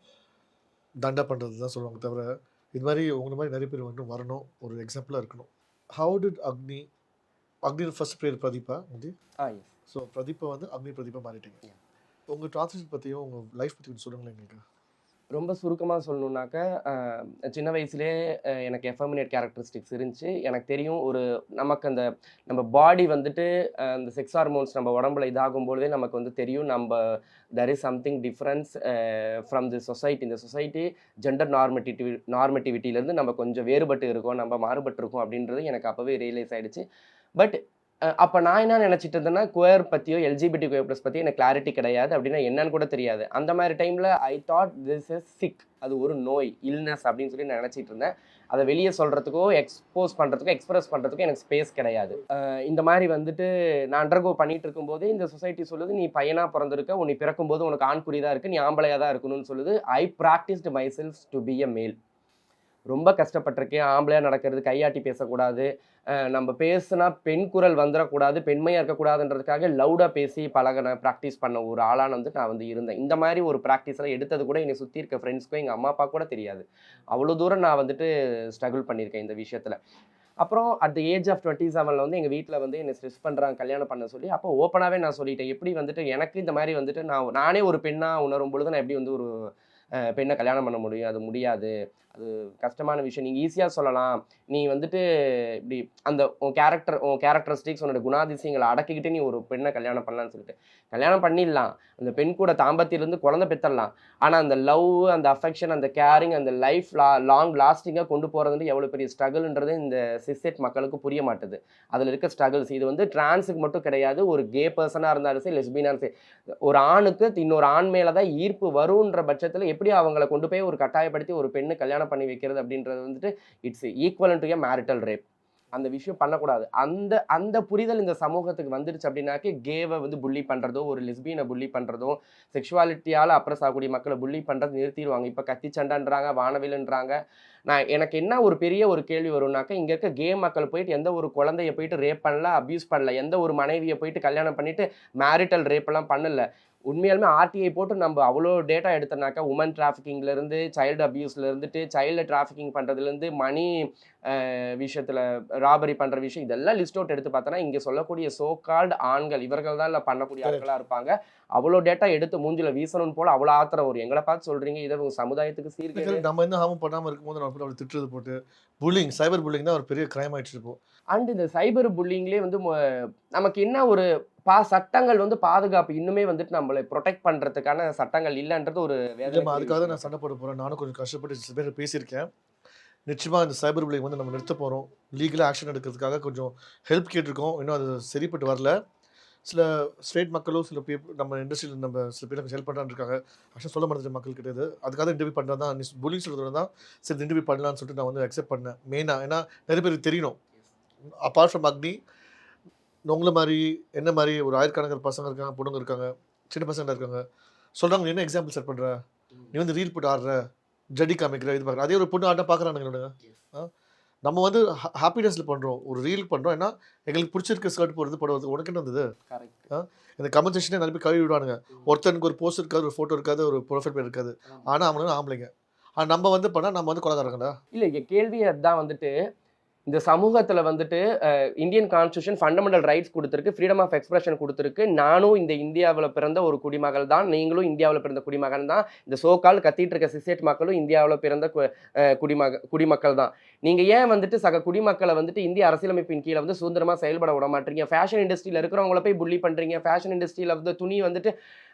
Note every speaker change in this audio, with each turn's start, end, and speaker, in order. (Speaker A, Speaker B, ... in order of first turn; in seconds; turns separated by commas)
Speaker A: 1.0-6.9, Speaker A: 7.7-9.1, Speaker B: 9.4-9.7, Speaker A: 9.9-11.6, Speaker A: 12.3-14.6, Speaker B: 15.3-36.8, Speaker B: 38.1-62.0, Speaker B: 62.9-79.8, Speaker B: 80.4-116.1, Speaker B: 116.6-125.2, Speaker B: 125.7-137.2, Speaker B: 137.7-166.2, Speaker A: 165.9-170.8, Speaker B: 171.1-180.1, Speaker A: 179.3-182.3, Speaker A: 183.1-188.7, Speaker A: 189.4-200.4, Speaker A: 201.2-202.0, Speaker A: 203.1-207.2, Speaker A: 207.8-209.0, Speaker A: 209.5-210.4, Speaker A: 211.0-213.7, Speaker A: 214.2-219.1, Speaker B: 219.3-219.7, Speaker A: 219.7-227.6, Speaker B: 227.7-229.1, Speaker B: 229.9-251.3